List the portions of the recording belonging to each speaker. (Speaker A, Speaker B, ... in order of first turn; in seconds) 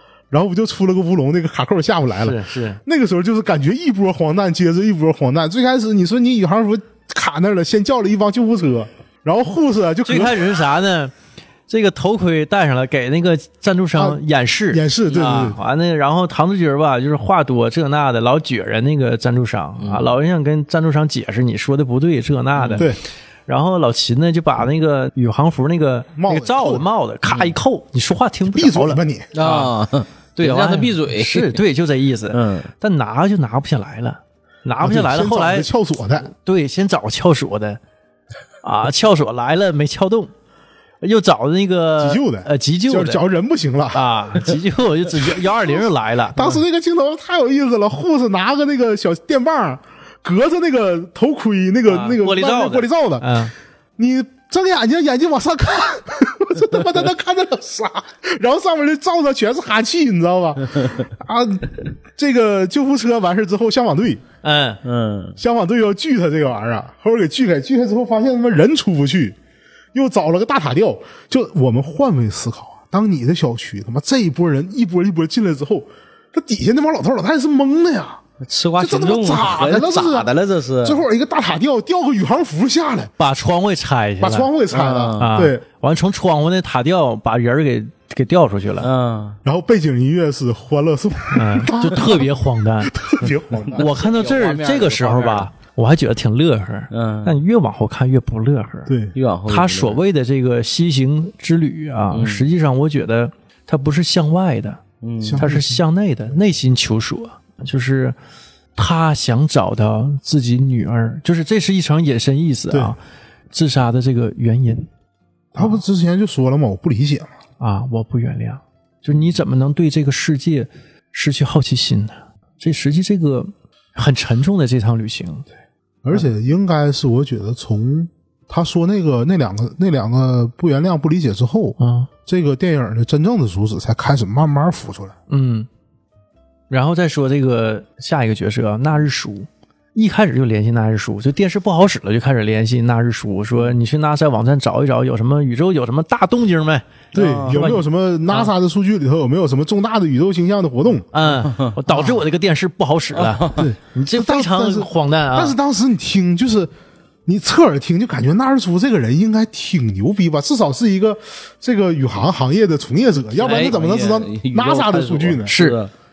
Speaker A: 0.3-10.6, 14.0-15.6, 26.2-26.9, 28.5-29.3, 34.8-36.3, 42.0-44.1, 46.3-53.4, 54.0-64.2, 65.4-69.4, 69.9-78.2, 78.8-80.3, 80.8-83.1, 84.2-85.6, 89.5-93.9, 98.9-99.2, 105.2-105.8, 115.5-117.3, 126.0-135.1, 147.1-151.1, 151.9-152.2, 153.6-156.7, 157.3-165.5
Speaker B: 2.2-2.8, 10.1-11.1, 11.7-22.9, 23.5-29.7, 30.4-35.7, 36.4-37.8, 38.6-40.3, 41.0-43.2, 43.9-46.6, 51.9-53.5, 64.4-64.8, 83.2-84.5, 85.2-88.9, 91.3-93.0, 93.8-98.9, 99.5-104.8, 105.4-108.2, 108.8-113.0, 113.5-114.9, 117.6-125.5, 131.8-132.1, 135.3-135.7, 136.7-148.5, 151.1-155.6, 163.4-163.7, 165.5-165.8
Speaker C: 19.8-20.1, 22.6-22.9, 29.3-31.6, 32.3-32.7, 64.8-65.4, 78.4-81.0, 84.7-85.4, 88.8-89.4, 93.5-95.5, 96.9-97.4, 99.1-100.0, 102.1-102.5, 105.0-105.4, 147.1-147.7, 151.5-151.8, 153.1-153.7, 163.4-165.9